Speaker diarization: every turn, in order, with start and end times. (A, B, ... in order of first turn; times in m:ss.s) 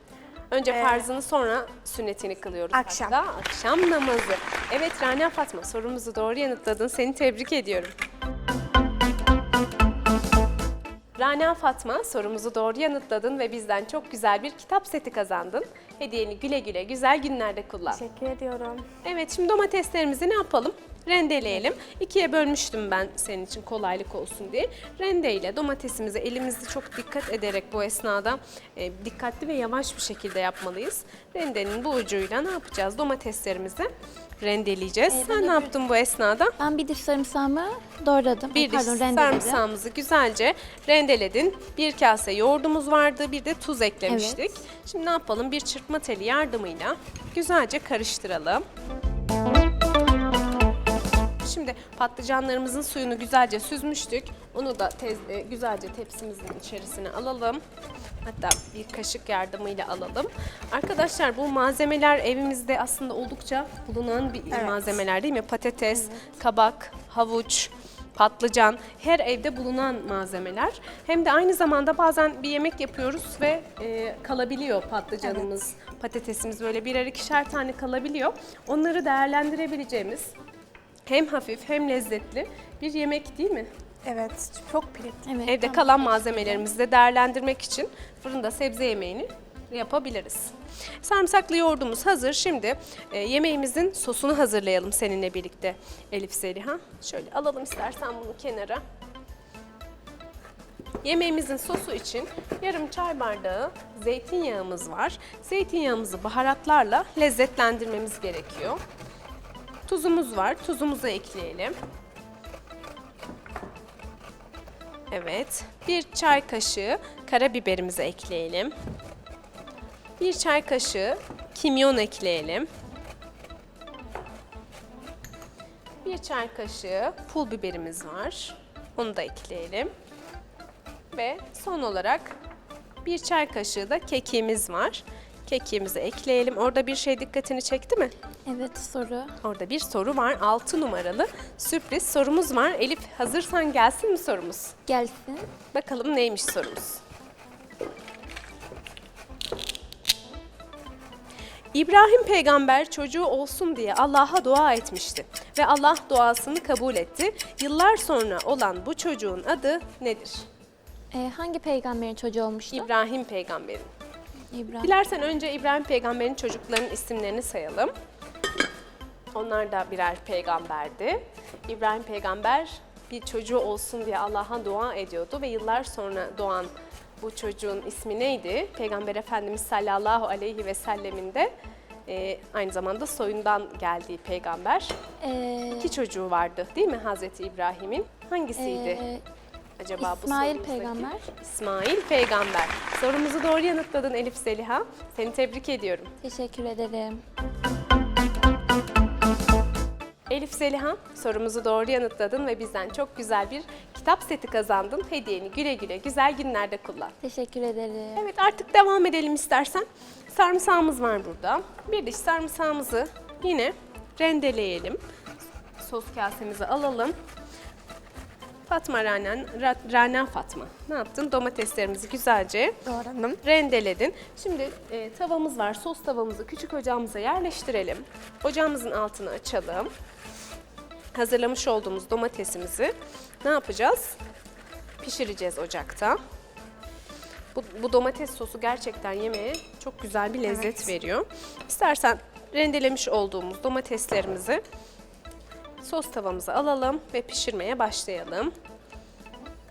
0:00.5-0:07.9 A
0:00.7-0:01.1 B
0:02.7-0:03.2 B
0:11.2-0:18.0 A
0:17.9-0:18.9 B
0:19.0-0:36.6 A
0:35.1-0:35.7 C
0:36.6-0:39.6 C
0:38.6-0:48.7 A
0:44.1-0:44.6 C
0:51.4-0:57.6 A
0:58.2-1:20.3 A
1:04.5-1:04.9 B
1:15.2-1:15.5 B
1:21.1-1:23.7 A
1:24.0-1:25.2 B
1:25.2-1:26.6 C
1:25.5-1:38.8 A
1:41.0-1:48.8 A
1:49.9-1:51.8 A
1:55.1-1:58.7 A
2:00.2-2:02.7 A
2:06.0-2:09.9 A
2:11.1-2:12.4 A
2:13.0-2:18.1 A
2:18.5-2:19.4 C
2:19.4-2:24.8 A
2:24.9-2:25.5 C
2:25.7-2:27.0 A
2:31.7-2:40.5 A
2:41.1-2:42.9 C
2:42.7-2:43.9 A
2:44.5-2:44.9 C
2:44.8-2:47.9 A
2:49.3-3:01.5 A
3:02.1-3:05.0 A
3:05.2-3:06.0 C
3:05.8-3:09.0 A
3:08.6-3:09.2 C
3:09.8-3:16.1 A
3:10.0-3:11.3 C
3:16.2-3:17.2 C
3:20.3-3:27.1 A
3:27.2-3:28.2 C
3:28.2-3:35.0 A
3:35.8-3:37.2 A
3:38.7-3:42.8 A
3:42.8-3:43.4 B
3:43.4-3:49.9 A
3:51.1-3:54.2 A
3:55.0-3:56.2 A
3:57.6-4:04.6 A
4:00.5-4:00.8 B
4:05.8-4:08.5 A